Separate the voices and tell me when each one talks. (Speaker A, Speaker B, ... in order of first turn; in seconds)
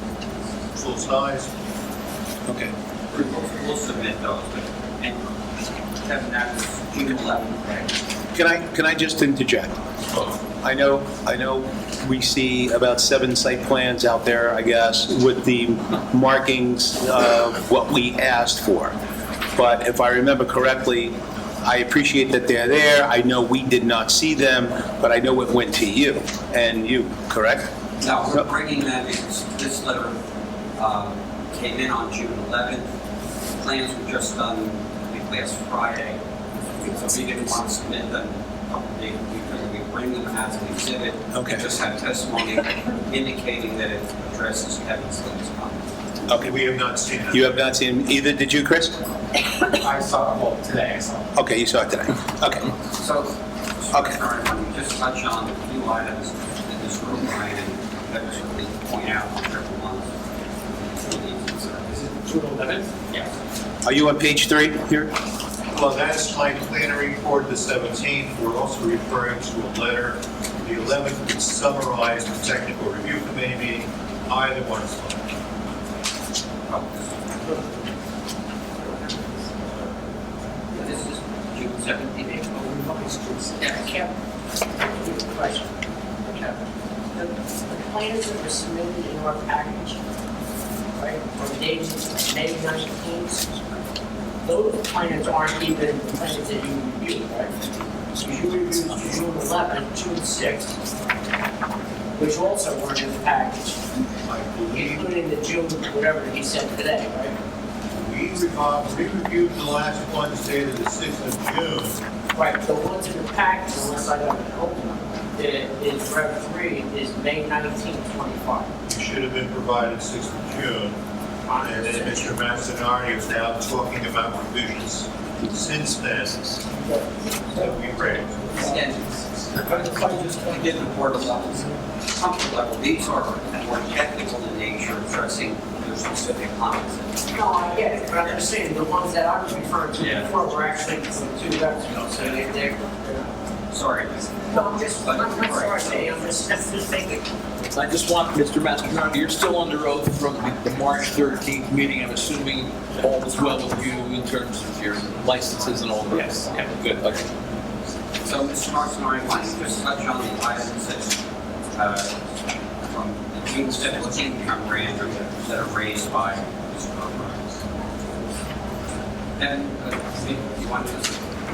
Speaker A: 0.7-1.5, 46.3-47.5, 65.7-75.3, 104.2-105.1, 107.9-112.0, 118.9-121.0, 121.6-126.4, 127.5-128.7
Speaker B: 2.5-2.7, 8.3-9.7, 10.6-18.9, 19.6-27.7, 41.3-41.7, 46.3-46.5, 47.3-49.0, 51.4-52.7, 63.9-65.1
Speaker C: 3.1-5.2, 6.0-7.9, 28.0-30.2, 30.8-32.9, 33.6-36.2, 36.8-45.9, 52.9-62.1, 76.7-77.1, 80.7-82.5, 128.6-138.4, 140.0-140.3, 143.7-144.2, 145.0-146.2, 158.2-161.2, 161.8-162.2, 162.9-167.5, 169.4-171.3
Speaker D: 49.8-51.3, 61.9-62.9, 82.6-83.8, 126.7-128.8, 129.4-131.6, 156.1-156.7
Speaker E: 82.2-84.1, 84.8-85.7, 86.2-86.6, 87.1-90.0, 91.0-93.5, 94.4-97.5, 98.2-100.8, 102.2-103.8, 104.7-107.4, 112.3-118.7, 121.5-122.3, 137.3-143.3, 144.5-147.3
Speaker F: 147.6-157.2